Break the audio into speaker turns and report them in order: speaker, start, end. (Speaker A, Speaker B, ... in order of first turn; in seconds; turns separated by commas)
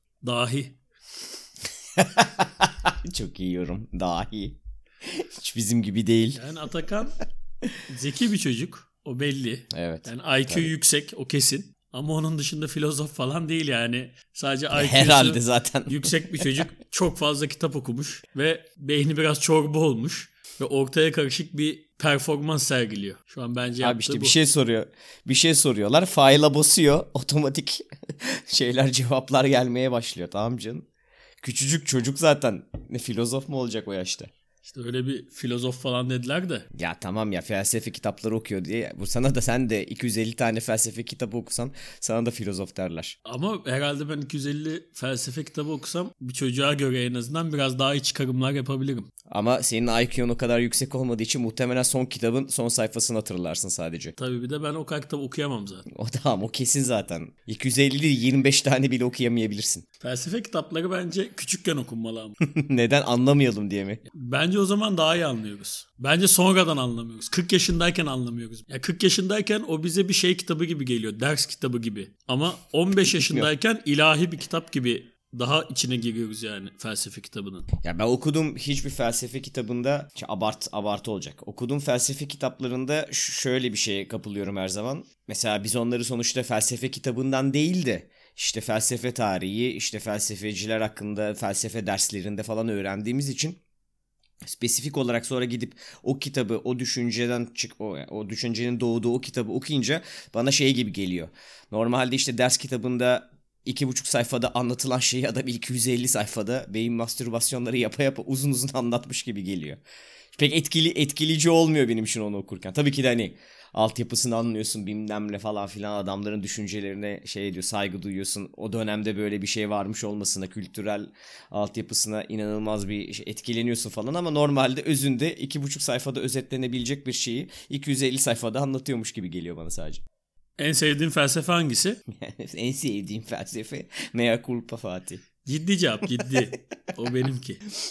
Speaker A: 0.2-0.8, Speaker B: 1.9-6.4, Speaker A: 6.3-7.2, Speaker A: 7.9-24.4, Speaker B: 9.7-10.7, Speaker B: 14.7-16.6, Speaker B: 23.8-30.9, Speaker B: 31.4-34.3, Speaker A: 34.6-36.6, Speaker B: 36.7-43.1, Speaker A: 43.2-49.1, Speaker B: 49.3-54.1, Speaker A: 54.2-55.9, Speaker B: 55.9-59.8, Speaker A: 60.0-62.4, Speaker B: 62.4-64.0, Speaker A: 64.1-77.7, Speaker B: 73.1-73.5, Speaker B: 77.8-93.6, Speaker B: 94.4-109.8, Speaker B: 110.3-130.0, Speaker A: 130.6-132.0, Speaker B: 132.1-135.2, Speaker A: 135.4-137.6